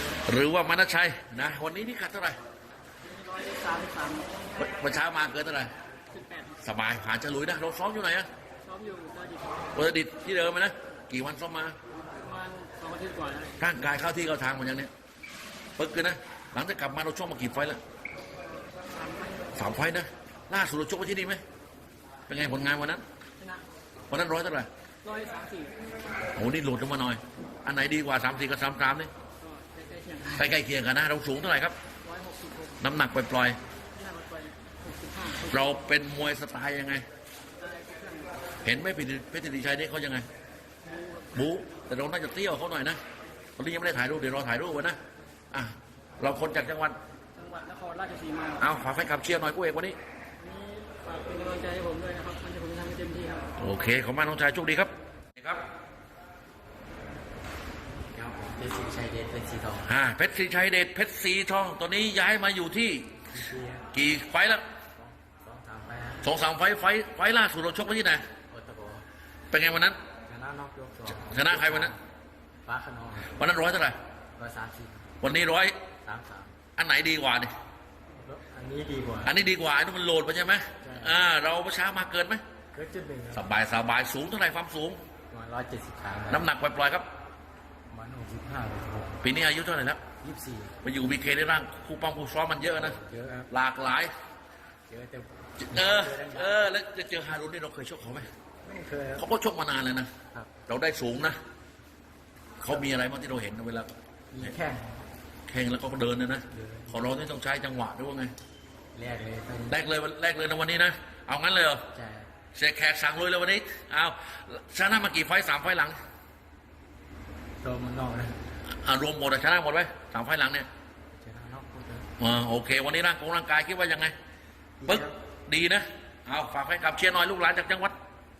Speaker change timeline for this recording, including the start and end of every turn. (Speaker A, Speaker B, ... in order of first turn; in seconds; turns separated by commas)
Speaker A: 0.2-2.4, Speaker B: 3.0-4.5, Speaker A: 4.6-5.7, Speaker B: 6.1-6.6, Speaker A: 6.6-8.3, Speaker B: 8.6-9.7, Speaker A: 9.7-11.8, Speaker B: 12.1-13.6, Speaker A: 13.6-14.9, Speaker A: 15.8-17.8, Speaker B: 18.9-19.5, Speaker A: 19.5-21.4, Speaker A: 22.3-23.0, Speaker B: 23.4-23.6, Speaker A: 24.1-24.7, Speaker B: 25.0-25.8, Speaker A: 26.4-29.1, Speaker B: 29.4-30.5, Speaker A: 30.4-31.8, Speaker B: 32.0-32.8, Speaker A: 32.8-33.6, Speaker B: 33.9-35.7, Speaker A: 35.5-37.0, Speaker B: 37.5-38.4, Speaker A: 38.6-40.2, Speaker B: 40.8-41.4, Speaker A: 41.3-43.0, Speaker A: 43.6-45.0, Speaker A: 45.5-47.0, Speaker B: 47.3-48.6, Speaker A: 48.6-50.0, Speaker B: 50.4-53.5, Speaker A: 53.6-55.6, Speaker C: 58.1-59.9, Speaker A: 59.8-63.1, Speaker C: 63.3-63.9, Speaker A: 63.9-64.6, Speaker C: 64.9-66.2, Speaker A: 66.2-68.2, Speaker C: 68.5-69.0, Speaker A: 69.5-70.0, Speaker C: 70.2-72.0, Speaker A: 71.2-72.0, Speaker C: 72.6-73.3, Speaker A: 73.3-74.0, Speaker C: 74.4-75.1, Speaker A: 75.2-75.7, Speaker C: 76.0-76.5, Speaker A: 76.8-77.5, Speaker C: 78.2-79.3, Speaker A: 79.2-82.4, Speaker C: 80.8-81.2, Speaker C: 82.7-83.4, Speaker A: 83.3-85.0, Speaker C: 85.3-86.5, Speaker A: 86.3-87.1, Speaker C: 87.9-89.2, Speaker A: 89.2-90.0, Speaker C: 90.2-90.8, Speaker A: 90.8-93.0, Speaker C: 92.7-93.5, Speaker A: 93.5-94.1, Speaker C: 94.9-96.7, Speaker A: 95.6-98.3, Speaker C: 98.6-99.2, Speaker A: 99.2-100.1, Speaker A: 100.7-101.4, Speaker A: 102.6-103.9, Speaker C: 104.3-105.0, Speaker A: 105.5-108.3, Speaker C: 106.5-107.0, Speaker C: 108.9-109.8, Speaker A: 109.7-111.8, Speaker C: 111.9-112.3, Speaker A: 112.5-116.0, Speaker C: 117.6-118.3, Speaker A: 118.8-120.7, Speaker C: 121.2-122.1, Speaker A: 122.2-124.1, Speaker C: 124.8-125.2, Speaker A: 124.9-128.0